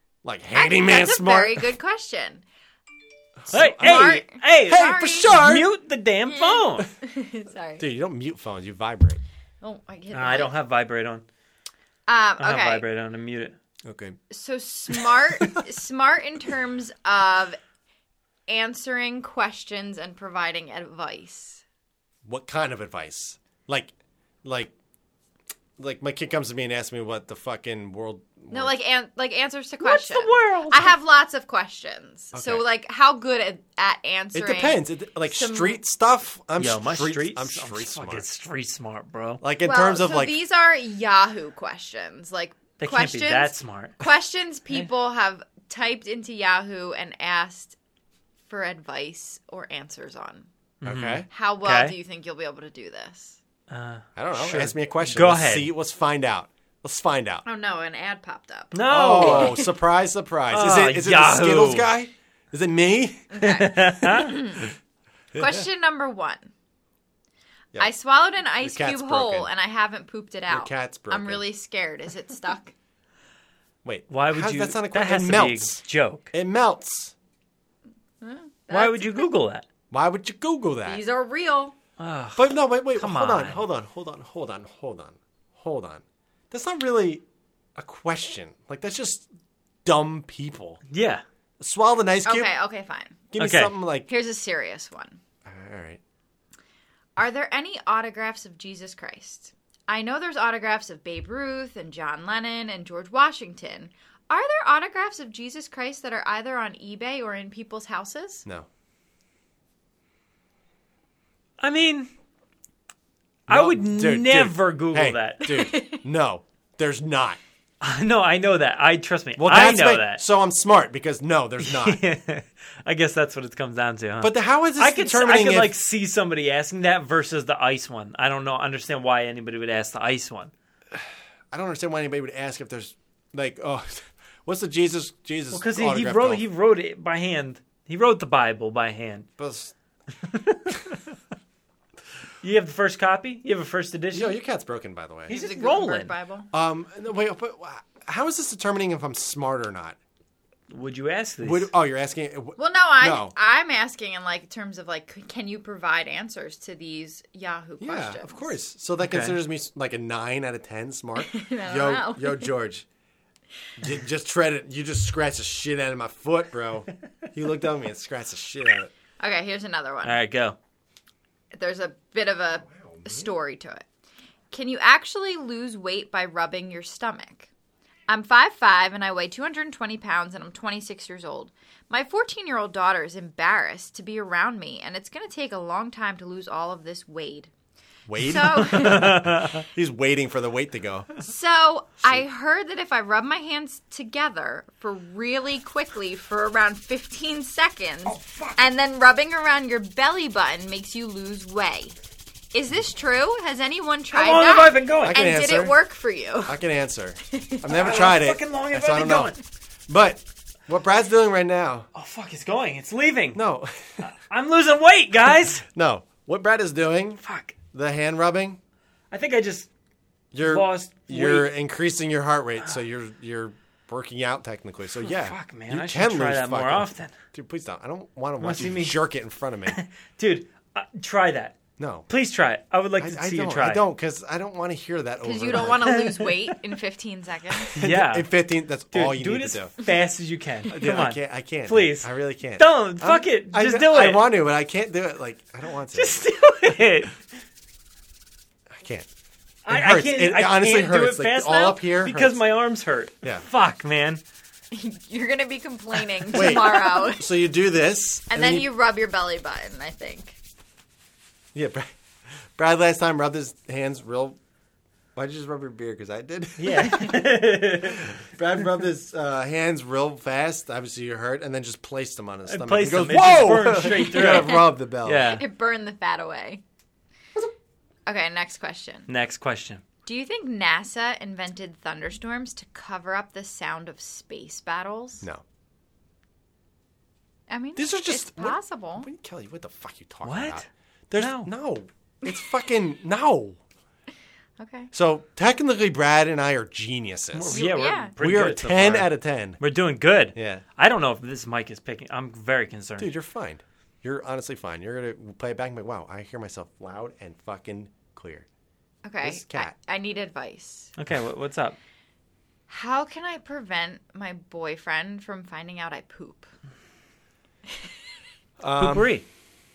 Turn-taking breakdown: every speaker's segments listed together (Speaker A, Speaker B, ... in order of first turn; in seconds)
Speaker A: 0.2-1.7, 3.4-5.7, 7.8-9.2, 13.9-14.2, 14.9-15.6, 22.2-24.7, 25.8-28.7, 32.3-32.6, 34.3-38.3, 39.4-40.4, 50.8-51.3, 54.2-57.4, 58.9-63.4, 65.3-65.7, 68.6-69.5, 70.5-71.5, 73.8-77.2, 79.9-81.0, 82.3-87.2, 87.8-89.3, 89.8-90.8, 91.6-92.5, 93.3-94.1, 95.5-96.0, 113.5-117.4, 119.4-122.0, 124.2-125.8, 130.9-136.4, 139.4-139.7, 144.1-145.4, 146.5-150.0, 151.4-153.3, 157.8-162.8, 163.8-168.9, 172.6-173.3, 188.1-191.1, 205.0-205.8, 206.4-211.9, 213.3-214.1, 215.7-217.2, 217.7-218.6, 220.3-229.8, 231.8-232.1, 233.0-236.0, 237.8-239.7, 240.7-246.2, 248.8-249.1, 249.7-252.4, 256.3-258.7, 261.6-261.9, 262.6-264.4, 265.2-267.2, 267.9-275.4, 287.8-293.6, 294.9-299.6, 300.4-300.6, 303.0-308.5, 309.2-309.8, 318.6-319.2
Speaker B: 0.5-2.4, 3.6-5.3, 6.3-7.8, 9.6-10.6, 12.1-12.9, 14.3-17.6, 18.5-21.6, 28.5-35.8, 39.6-47.8, 48.5-50.5, 51.3-53.4, 57.5-58.8, 63.3-64.7, 65.4-66.5, 67.8-72.7, 78.2-79.3, 80.8-81.8, 92.2-93.2, 94.0-95.2, 97.2-108.5, 115.5-116.0, 145.3-146.5, 152.6-158.6, 161.2-162.5, 169.2-170.2, 171.5-173.8, 174.5-177.5, 178.1-187.5, 188.2-189.2, 191.2-201.9, 202.5-206.6, 207.3-207.6, 235.2-237.7, 254.7-257.3, 258.3-260.4, 273.8-274.7, 275.2-276.6, 278.1-279.1, 280.1-285.2, 287.5-289.1, 294.6-294.9, 297.5-298.1, 309.0-310.9, 312.7-316.5
Speaker C: 3.5-6.9, 10.1-11.2, 12.4-13.6, 29.8-30.9, 36.6-39.4, 42.8-44.1, 50.8-52.0, 53.7-55.7, 58.7-59.7, 60.5-61.9, 63.4-64.4, 74.1-76.3, 78.7-79.7, 82.0-83.6, 90.9-91.2, 93.4-93.7, 111.6-112.1, 113.5-115.5, 117.8-120.2, 121.6-130.5, 135.5-139.3, 140.2-141.0, 142.4-144.4, 145.3-146.1, 150.7-151.7, 159.0-159.4, 170.0-170.6, 188.6-189.6, 198.1-198.7, 204.1-205.2, 207.7-209.4, 211.9-213.4, 214.0-215.6, 217.2-217.6, 219.1-219.7, 220.4-221.5, 224.9-227.2, 228.4-229.0, 229.7-233.9, 235.5-236.5, 237.6-238.3, 238.9-244.3, 245.9-247.2, 249.7-254.2, 266.6-268.1, 272.5-275.4, 279.1-279.8, 290.2-290.7, 291.2-291.5, 297.3-303.1, 311.0-311.8, 318.8-319.2